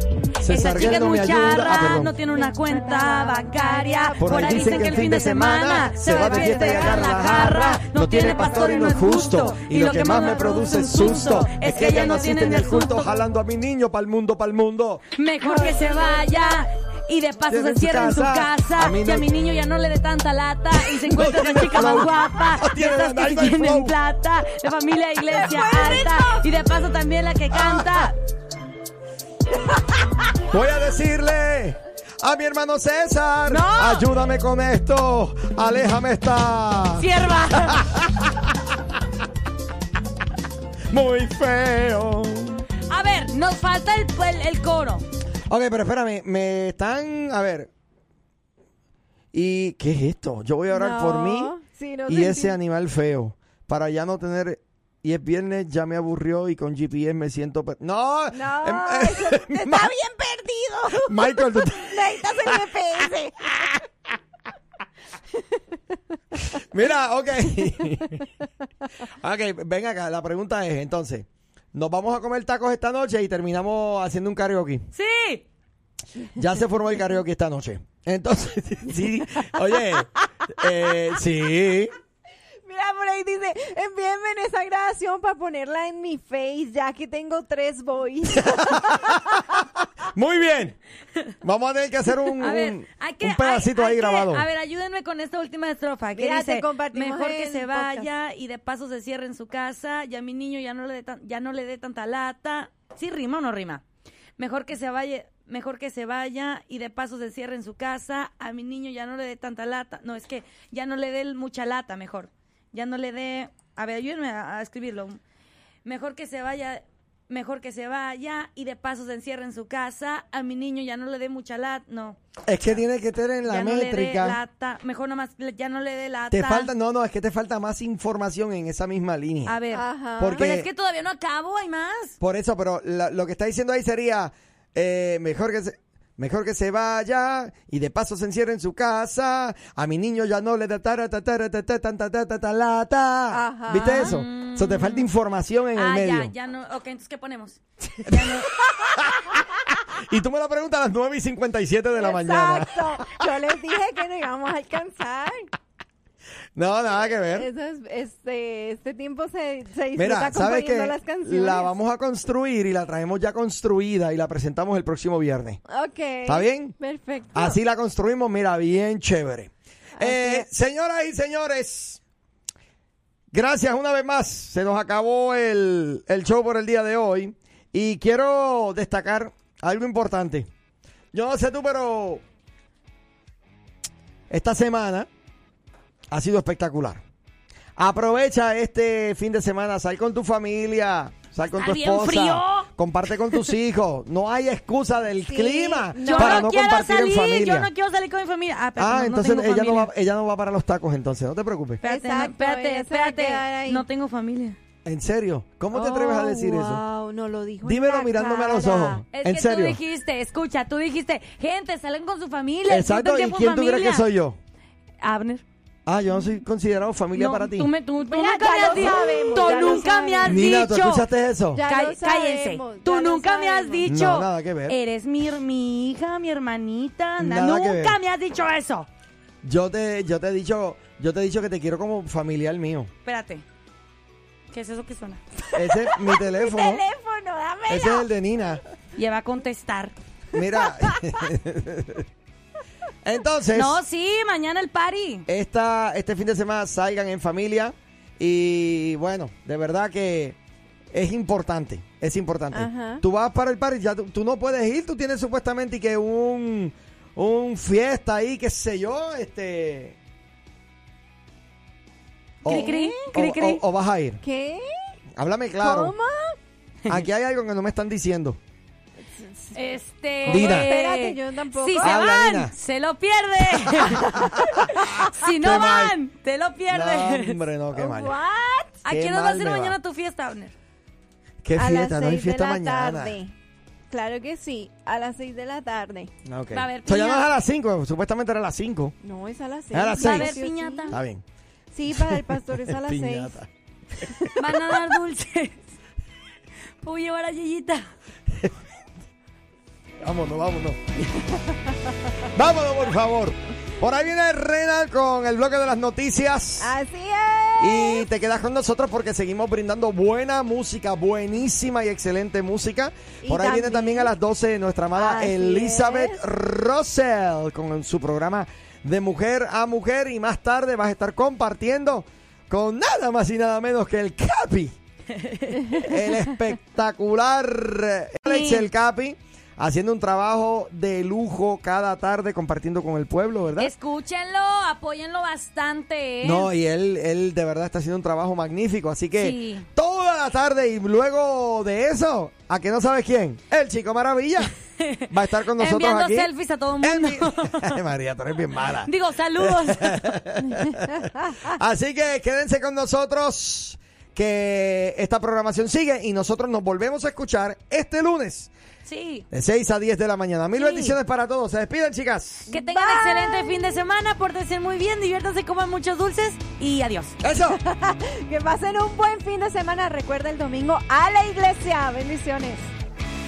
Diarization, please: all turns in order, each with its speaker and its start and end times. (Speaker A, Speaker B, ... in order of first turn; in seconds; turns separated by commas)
Speaker A: 0.4-2.1, Speaker B: 0.4-13.2, Speaker C: 0.6-0.9, Speaker C: 2.3-7.5, Speaker A: 4.2-15.1, Speaker C: 8.2-10.7, Speaker B: 15.2-28.2, Speaker C: 15.4-16.6, Speaker A: 17.5-19.3, Speaker A: 20.8-24.0, Speaker C: 25.3-26.5, Speaker A: 27.5-28.1, Speaker A: 30.5-38.9, Speaker B: 33.5-34.1, Speaker B: 37.0-37.9, Speaker A: 40.9-42.6, Speaker B: 42.9-45.1, Speaker A: 45.5-47.7, Speaker A: 49.3-51.5, Speaker C: 50.7-52.6, Speaker A: 52.1-59.9, Speaker C: 58.3-63.8, Speaker A: 60.9-62.7, Speaker A: 66.4-68.3, Speaker A: 69.1-74.9, Speaker B: 74.9-75.5, Speaker A: 76.3-81.9, Speaker C: 82.7-89.6, Speaker A: 88.3-90.8, Speaker A: 91.4-94.5, Speaker B: 92.4-103.8, Speaker C: 96.2-98.1, Speaker B: 104.4-115.2, Speaker B: 115.8-122.2, Speaker A: 122.5-124.4, Speaker B: 123.5-126.7, Speaker A: 126.3-129.6, Speaker B: 129.5-132.2, Speaker C: 129.7-130.5, Speaker A: 130.2-130.7, Speaker A: 132.2-146.3, Speaker C: 143.3-144.2, Speaker B: 143.8-145.1, Speaker B: 145.8-148.5, Speaker A: 148.1-153.2, Speaker C: 152.0-155.5, Speaker A: 156.6-157.5, Speaker C: 157.3-161.7, Speaker A: 159.9-165.6, Speaker C: 165.7-167.6, Speaker A: 166.2-166.8, Speaker A: 167.3-172.0, Speaker C: 170.0-170.5, Speaker A: 173.3-180.5, Speaker A: 181.1-182.2, Speaker A: 184.3-185.1, Speaker A: 186.1-187.0, Speaker A: 187.8-197.7, Speaker B: 191.5-192.7, Speaker C: 195.2-196.5, Speaker B: 196.0-199.9, Speaker A: 198.8-201.8, Speaker B: 201.8-204.6, Speaker C: 201.8-203.8, Speaker A: 204.8-206.8, Speaker C: 205.7-209.0, Speaker A: 207.6-209.8, Speaker B: 209.1-214.1, Speaker A: 212.7-214.4, Speaker B: 215.0-215.4, Speaker A: 215.9-217.7, Speaker B: 217.1-221.1, Speaker C: 218.1-220.5, Speaker A: 220.2-221.7, Speaker C: 221.5-223.9, Speaker B: 221.7-228.9, Speaker A: 223.9-224.8, Speaker A: 227.2-228.0, Speaker A: 229.4-232.9, Speaker B: 233.1-233.4, Speaker B: 234.5-235.2, Speaker A: 235.6-236.8, Speaker C: 235.6-238.1, Speaker A: 237.7-238.6, Speaker B: 239.0-239.9, Speaker A: 240.3-242.1, Speaker C: 240.7-241.0, Speaker A: 243.0-243.8, Speaker B: 243.5-245.3, Speaker A: 245.3-250.4, Speaker A: 250.9-260.0, Speaker C: 252.5-253.0, Speaker A: 262.4-264.2, Speaker B: 262.4-263.6, Speaker C: 262.5-263.1, Speaker C: 264.2-264.9, Speaker A: 265.2-265.9, Speaker C: 265.6-266.4, Speaker A: 266.9-268.4, Speaker C: 269.1-269.6, Speaker B: 269.5-277.4, Speaker C: 270.2-272.0, Speaker A: 270.3-270.7, Speaker A: 271.8-272.5, Speaker A: 273.7-276.0, Speaker C: 274.0-275.1, Speaker A: 276.7-278.1, Speaker C: 277.8-278.8, Speaker B: 278.8-280.5, Speaker A: 278.9-279.8, Speaker A: 281.4-283.2, Speaker C: 281.6-283.3, Speaker C: 283.9-286.1, Speaker A: 286.2-289.0, Speaker B: 286.5-287.3, Speaker C: 289.0-291.0, Speaker A: 289.7-291.2, Speaker B: 289.9-291.0, Speaker C: 291.7-293.4, Speaker A: 291.9-293.5, Speaker A: 294.0-294.3, Speaker C: 294.0-294.3, Speaker B: 294.4-295.7, Speaker B: 296.8-297.9, Speaker A: 298.3-298.6, Speaker A: 300.0-300.8, Speaker C: 301.4-301.7, Speaker A: 302.3-306.8, Speaker C: 306.6-308.1, Speaker A: 307.6-324.8, Speaker C: 313.2-314.1, Speaker C: 315.0-316.2, Speaker B: 325.1-325.9, Speaker A: 325.7-333.7, Speaker B: 328.2-328.7, Speaker B: 333.6-336.5, Speaker A: 336.2-344.5, Speaker B: 339.2-339.7, Speaker B: 344.8-347.8, Speaker A: 345.1-358.5, Speaker B: 348.8-350.1, Speaker B: 358.9-359.3, Speaker A: 359.3-362.5, Speaker B: 360.6-361.0, Speaker C: 362.5-363.6, Speaker B: 362.5-367.2, Speaker A: 367.2-367.6, Speaker C: 367.5-372.7